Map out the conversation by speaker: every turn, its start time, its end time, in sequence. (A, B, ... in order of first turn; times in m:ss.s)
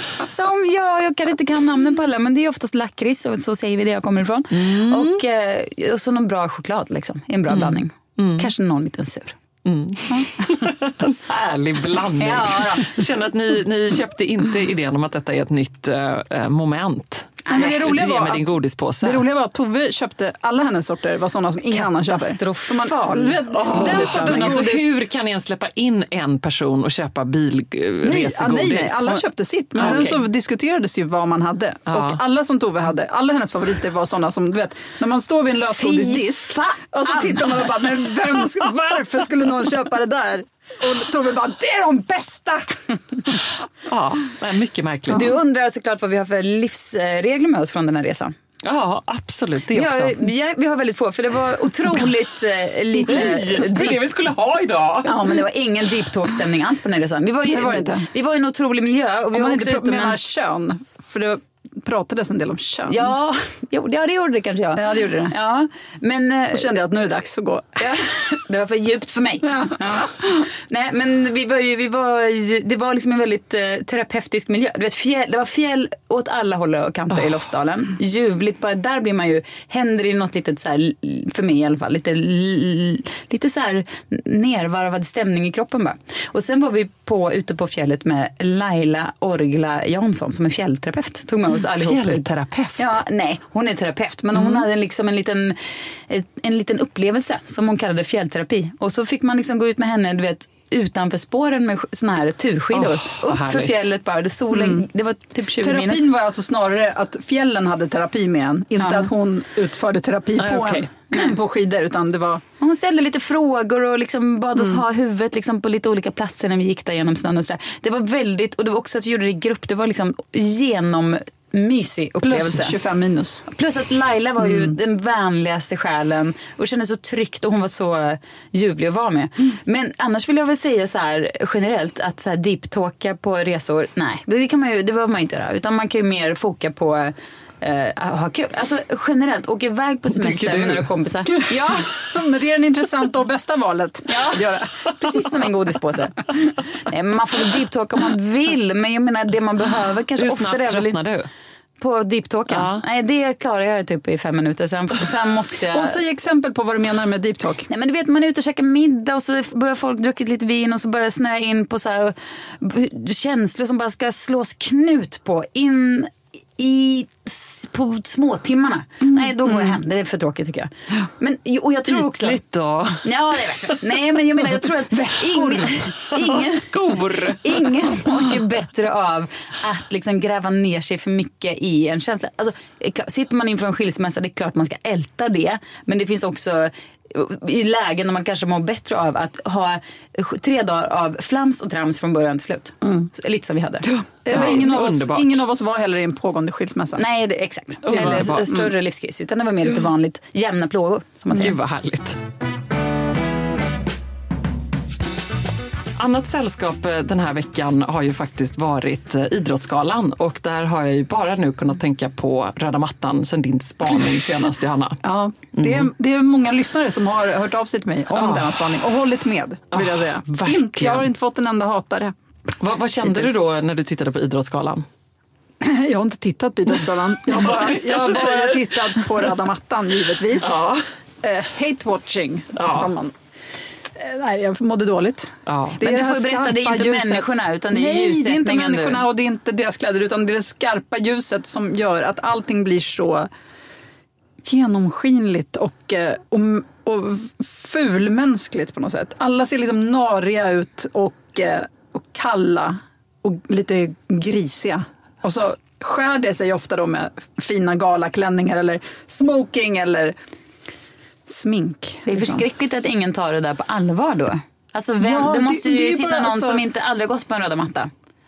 0:00.2-0:09.4 A
0:04.5-0:05.2 B
0:07.5-0:08.5 B
0:09.6-0:19.3 B
0:10.1-0:10.4 A
0:12.2-0:13.0 A
0:17.5-0:17.9 A
0:17.5-0:24.8 C
0:21.7-0:24.8 A
0:23.5-0:29.1 B
0:28.0-0:43.4 C
0:29.8-0:30.1 A
0:29.8-0:30.2 B
0:31.9-0:32.2 B
0:35.6-0:38.0 A
0:43.9-0:45.3 B
0:45.1-0:48.3 A
0:48.6-0:50.3 B
0:49.7-0:54.0 A
0:53.0-0:55.3 B
0:55.0-1:00.2 A
0:57.5-0:58.1 C
0:59.3-1:03.1 C
1:02.9-1:06.8 A
1:04.8-1:05.3 C
1:06.5-1:08.1 C
1:07.8-1:32.2 A
1:09.4-1:10.1 C
1:31.6-1:33.0 B
1:32.8-1:46.1 A
1:42.7-1:43.8 B
1:44.5-1:44.8 C
1:45.6-1:52.4 C
1:48.8-1:49.1 A
1:50.4-1:50.9 B
1:52.6-2:02.8 A
2:02.2-2:03.4 C
2:03.5-2:21.9 A
2:04.4-2:04.8 C
2:20.1-2:20.9 B
2:21.5-2:25.3 C
2:24.1-2:31.0 A
2:30.2-2:31.3 B
2:31.8-2:36.0 A
2:32.5-2:32.8 B
2:35.7-2:37.7 C
2:37.7-2:52.4 A
2:49.0-2:49.7 C
2:51.9-2:54.0 B
2:53.0-2:56.8 A
2:55.0-2:55.7 C
2:56.1-2:58.0 B
2:57.4-3:14.6 A
3:12.8-3:13.1 C
3:13.9-3:17.0 C
3:14.3-3:15.4 B
3:17.0-3:21.5 A
3:17.8-3:18.5 B
3:17.9-3:18.7 C
3:21.3-3:22.2 B
3:26.0-3:35.9 B
3:35.0-3:42.1 C
3:38.1-3:38.8 B
3:39.7-3:41.1 B
3:42.6-3:44.8 B
3:43.0-3:43.3 C
3:45.6-3:50.6 C
3:46.7-3:49.4 B
3:50.4-3:50.8 B
3:51.2-3:53.1 C
3:52.6-3:52.9 B
3:53.9-4:03.3 C
3:55.5-3:55.8 B
3:55.8-3:59.1 A
4:04.4-4:20.1 C
4:21.3-4:22.4 C
4:22.1-4:27.9 A
4:25.0-4:26.6 C